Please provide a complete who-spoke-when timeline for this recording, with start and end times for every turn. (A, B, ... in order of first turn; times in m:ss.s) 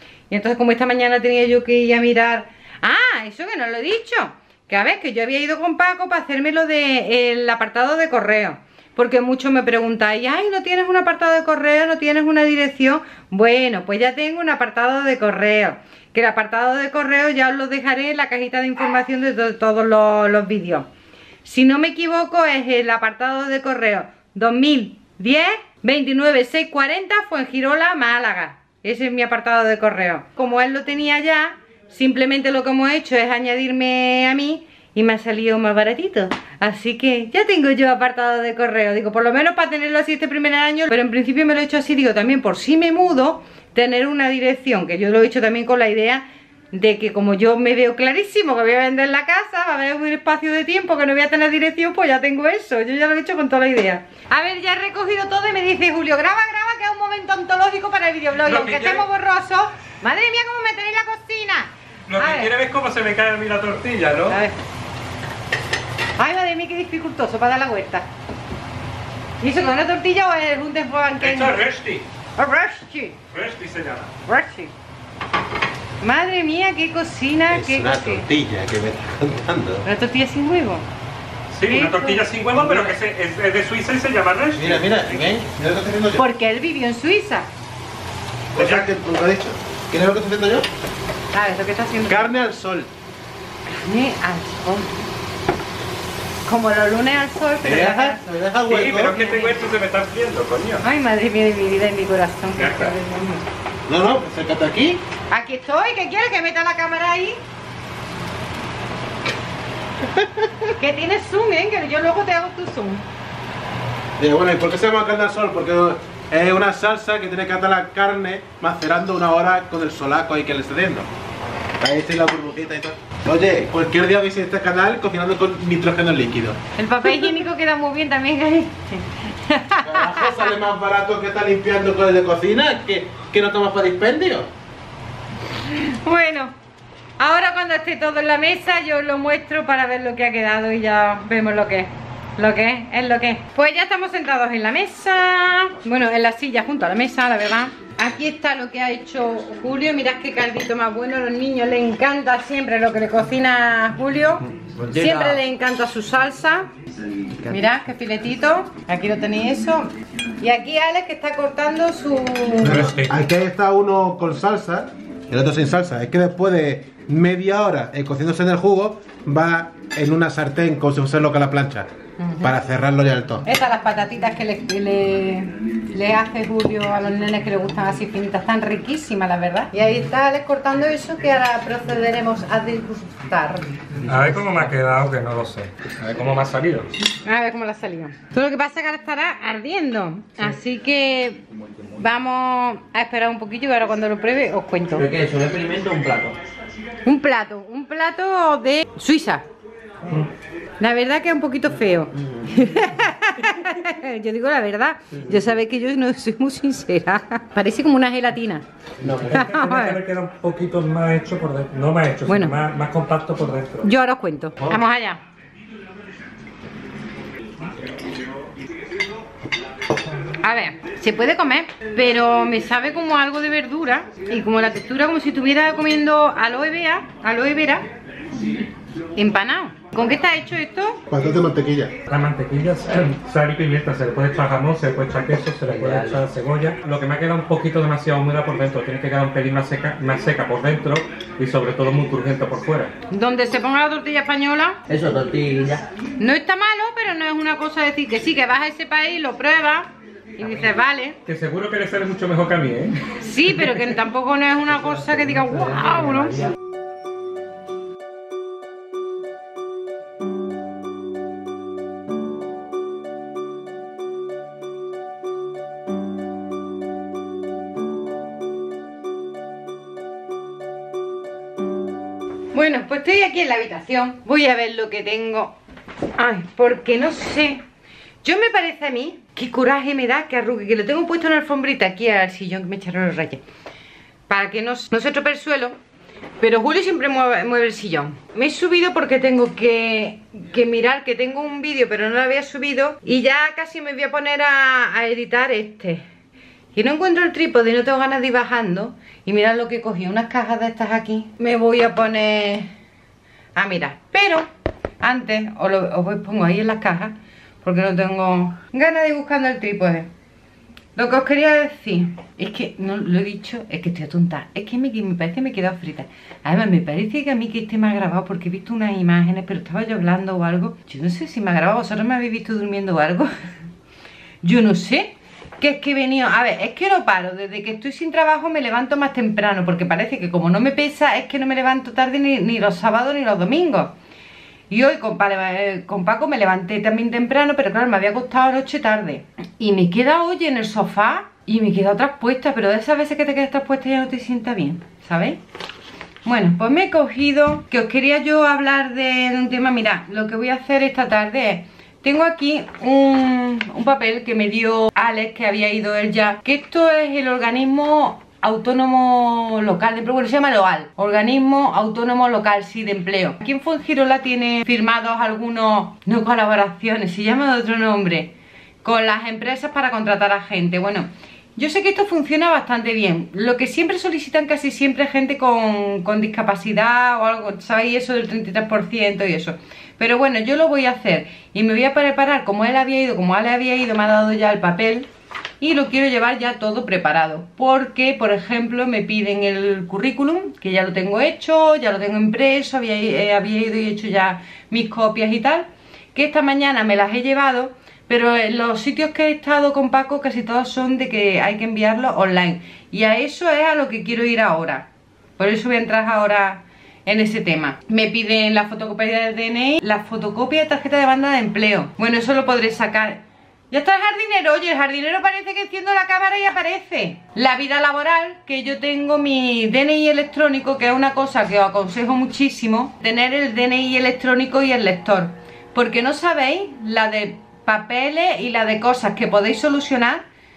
0:00.3-0:20.9 A
0:21.4-1:02.5 A
0:58.4-0:59.0 B
1:02.1-1:04.4 B
1:04.3-1:04.6 A
1:06.2-1:08.1 A
1:09.4-1:11.6 A
1:11.2-1:12.1 B
1:12.4-1:13.2 A
1:13.3-1:14.1 B
1:14.2-1:14.7 A
1:16.0-1:18.2 A
1:17.5-1:19.8 C
1:19.8-1:20.8 A
1:21.5-1:25.2 B
1:21.6-1:22.3 A
1:22.5-1:22.9 C
1:24.5-1:26.2 C
1:26.2-1:27.5 A
1:28.5-1:30.7 C
1:28.6-1:28.8 B
1:31.3-1:32.3 A
1:32.1-1:32.9 C
1:33.7-1:34.9 A
1:36.4-1:38.3 A
1:37.6-1:39.2 C
1:38.7-1:40.8 B
1:39.2-1:39.5 A
1:40.8-1:43.4 A
1:42.6-1:42.9 B
1:43.9-1:45.0 C
1:45.3-1:47.4 A
1:50.0-1:50.7 C
1:50.8-1:53.0 A
1:54.2-2:01.1 C
2:01.8-2:06.6 C
2:06.8-2:10.5 A
2:09.8-2:14.5 C
2:15.6-2:16.5 A
2:17.2-2:36.7 A
2:34.8-2:35.4 D
2:37.4-2:42.9 A
2:42.6-2:53.4 C
2:42.6-2:43.1 B
2:52.2-2:52.4 A
2:53.4-3:03.7 A
3:04.0-3:06.9 B
3:07.2-3:11.4 A
3:12.0-3:15.1 A
3:14.9-3:16.4 D
3:17.0-3:19.4 A
3:20.8-3:28.6 A
3:29.1-3:33.9 B
3:29.3-3:30.0 A
3:32.3-3:32.6 A
3:33.8-3:35.2 A
3:40.4-3:47.8 A
3:49.2-3:51.0 A
3:51.1-3:51.9 C
3:52.1-4:02.9 B
3:55.7-3:56.2 D
4:03.1-4:04.8 A
4:04.9-4:05.9 D
4:06.2-4:11.2 A
4:11.2-4:13.8 B
4:13.2-4:16.5 A
4:32.5-4:35.6 A
4:36.2-4:37.6 A
4:38.2-4:43.4 A
4:44.3-4:45.7 A
4:46.4-4:56.0 A
4:56.7-5:02.7 A
5:03.6-5:04.5 A
5:05.0-5:10.1 A
5:11.0-5:23.3 A
5:24.4-5:33.9 A
5:34.7-5:45.4 A
5:46.2-6:08.3 A
6:08.8-6:25.1 A
6:25.6-7:10.2 A